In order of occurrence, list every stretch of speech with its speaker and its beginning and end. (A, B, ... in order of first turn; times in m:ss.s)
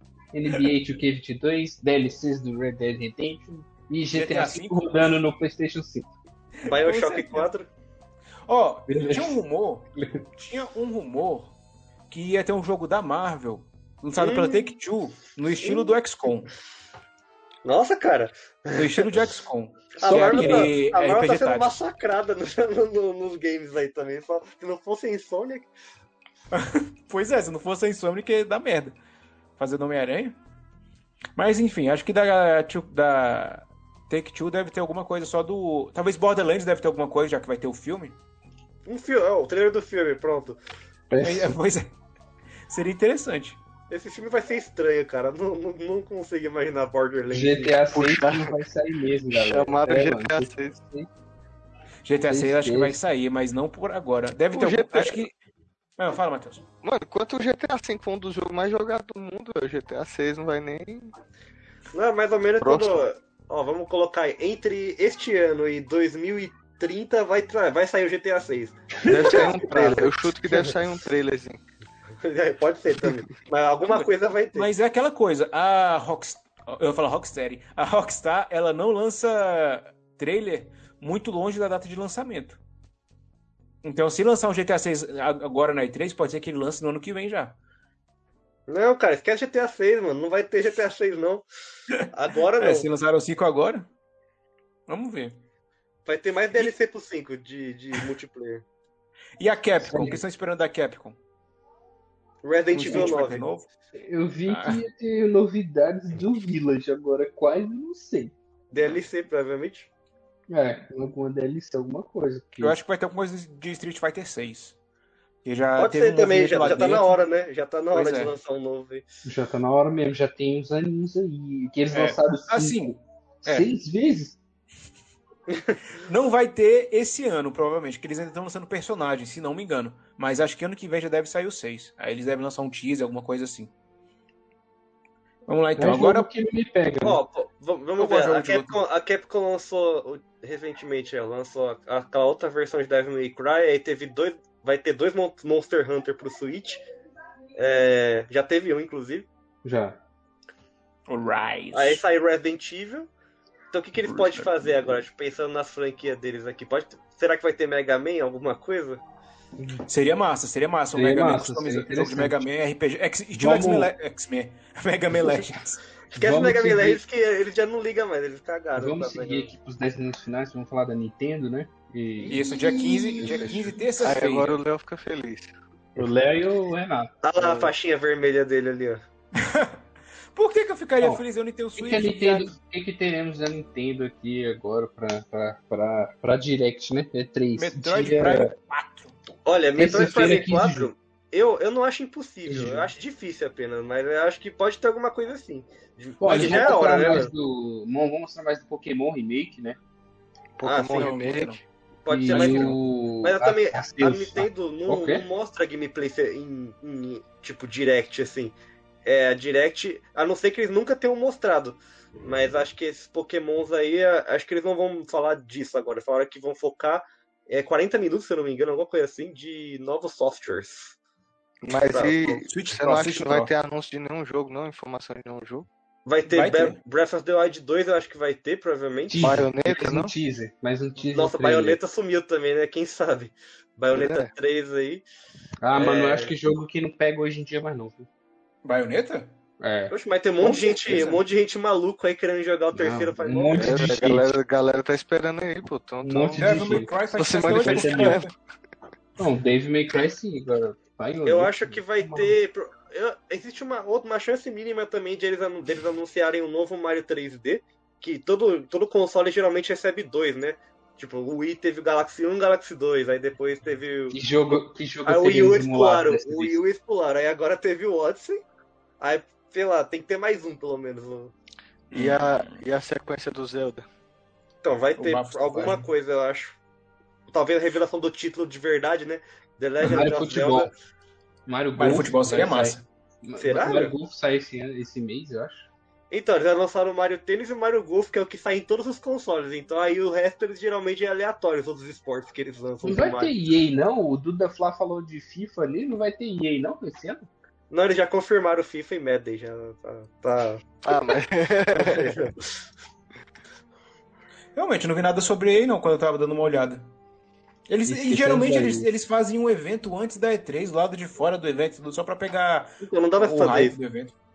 0:00.3-0:06.1 A
0:04.1-0:05.0 B
0:06.6-0:07.5 B
0:06.6-0:07.7 C
0:08.4-0:11.5 B
0:08.9-0:09.4 A
0:10.0-0:10.2 A
0:12.1-0:16.5 B
0:14.2-0:14.7 C
0:15.6-0:16.0 C
0:17.6-0:19.2 C
0:18.7-0:21.7 B
0:20.0-0:25.7 C
0:20.0-0:20.7 A
0:26.5-0:29.0 B
0:29.6-0:30.4 B
0:31.4-0:38.2 B
0:38.8-0:40.6 C
0:41.1-0:41.5 A
0:41.2-0:41.9 B
0:42.7-0:43.6 B
0:43.9-0:47.8 C
0:47.3-0:51.1 A
0:47.9-0:48.6 D
0:49.3-0:50.8 D
0:52.0-0:55.3 B
0:52.3-0:53.0 A
0:54.5-0:55.2 D
0:56.0-0:56.6 B
0:56.8-1:01.1 D
1:01.9-1:10.3 C
1:02.6-1:03.0 D
1:09.1-1:11.6 D
1:12.2-1:14.7 C
1:13.8-1:22.6 B
1:23.8-1:27.6 B
1:28.7-1:31.4 C
1:32.0-1:32.9 C
1:32.6-1:33.9 B
1:34.9-1:35.4 B
1:36.0-1:38.6 C
1:39.4-1:41.2 B
1:39.8-1:40.2 A
1:42.4-1:43.4 C
1:42.7-1:43.7 B
1:44.0-1:48.3 A
1:44.5-1:44.8 B
1:48.7-1:49.9 C
1:50.5-1:52.8 A
1:52.6-1:54.8 B
1:55.4-1:57.2 B
1:55.8-1:59.0 C
1:57.9-1:58.3 B
1:59.2-2:04.4 A
2:01.9-2:03.7 B
2:05.5-2:05.8 C
2:06.0-2:13.7 B
2:15.5-2:16.3 B
2:15.8-2:17.2 A
2:17.0-2:26.8 C
2:18.0-2:18.8 B
2:27.6-2:29.3 C
2:29.6-2:30.0 A
2:31.1-2:32.0 B
2:31.7-2:33.1 C
2:33.7-2:39.0 C
2:34.0-2:35.0 B
2:39.6-2:39.8 A
2:39.8-2:45.8 B
2:40.9-2:42.4 A
2:43.3-2:43.9 A
2:46.1-2:47.0 A
2:46.1-2:49.5 C
2:48.8-2:53.7 A
2:52.2-2:53.6 C
2:52.3-2:54.6 B
2:54.0-2:55.5 D
2:56.0-2:57.7 A
2:57.2-2:59.0 C
2:59.3-2:59.8 B
3:00.3-3:02.5 B
3:01.8-3:08.5 A
3:07.6-3:09.2 B
3:09.4-3:17.3 C
3:09.8-3:10.9 A
3:12.4-3:12.9 A
3:16.2-3:19.8 A
3:16.2-3:17.2 B
3:20.6-3:21.6 D
3:20.6-3:21.1 C
3:20.9-3:21.6 B
3:22.0-3:41.0 C
3:22.1-3:25.2 A
3:22.3-3:22.8 B
3:41.6-3:45.7 D
3:41.9-3:42.4 C
3:42.4-3:43.5 B
3:46.0-3:49.4 C
3:46.3-3:46.8 B
3:49.1-3:51.8 A
3:49.2-3:50.1 D
3:51.1-3:55.0 C
3:53.9-3:54.3 D
3:55.6-3:58.1 A
3:55.7-3:56.3 C
3:58.6-3:59.3 B
3:59.6-3:59.9 A
3:59.9-4:03.8 C
4:00.4-4:01.2 B
4:02.7-4:04.3 A
4:03.5-4:08.3 D
4:06.0-4:06.9 A
4:06.4-4:08.3 B
4:07.6-4:08.1 A
4:09.2-4:12.3 A
4:11.2-4:24.2 C
4:24.1-4:26.6 A
4:25.0-4:28.4 C
4:29.0-4:31.3 C
4:31.9-4:33.8 D
4:31.9-4:32.6 B
4:34.6-4:36.6 C
4:35.0-4:35.9 B
4:37.3-4:40.7 C
4:39.8-4:40.7 A
4:41.4-4:45.6 A
4:41.8-4:42.8 B
4:43.4-4:43.9 C
4:46.1-4:53.3 C
4:52.8-4:57.3 A
4:57.7-5:01.1 C
5:00.8-5:02.3 D
5:01.7-5:02.4 C
5:04.5-5:06.9 B
5:07.7-5:14.1 B
5:07.8-5:08.9 A
5:12.8-5:13.8 C